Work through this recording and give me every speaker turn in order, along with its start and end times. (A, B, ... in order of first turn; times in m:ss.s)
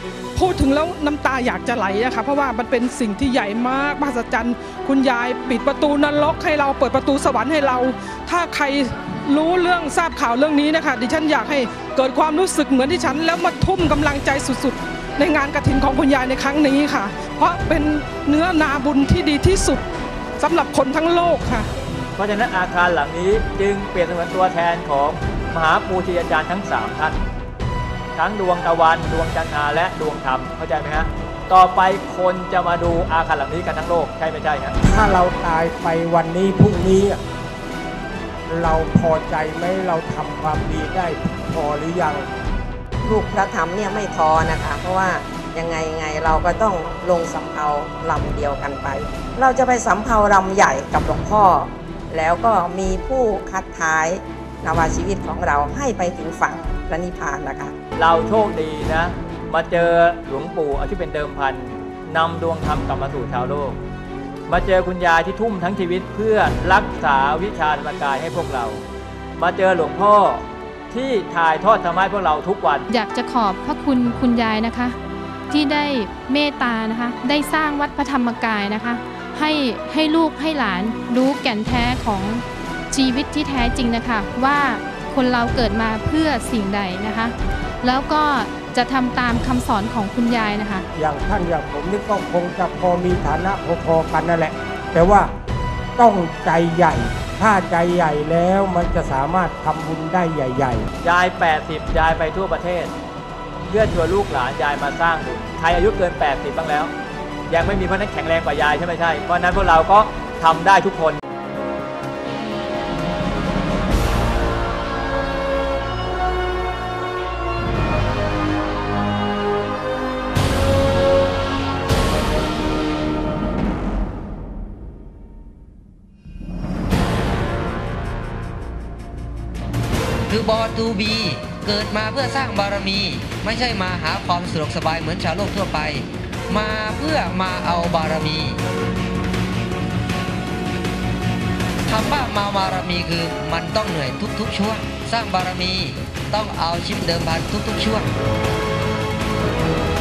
0:00.3-0:19.8 A
0:20.4-0:21.7 A
0:22.2-0:27.2 B
0:28.2-0:34.8 B
0:34.8-0:37.2 C
0:38.5-0:42.2 C
0:43.0-0:57.7 D
0:58.0-1:03.8 B
1:04.5-1:08.8 B
1:09.4-1:12.9 B
1:12.9-1:15.0 E
1:15.5-1:30.8 E
1:30.9-1:35.3 C
1:36.0-1:40.8 C
1:41.0-1:42.9 B
1:43.7-1:46.9 B
1:47.5-1:51.2 B
2:10.3-2:18.6 F
2:21.9-2:28.0 F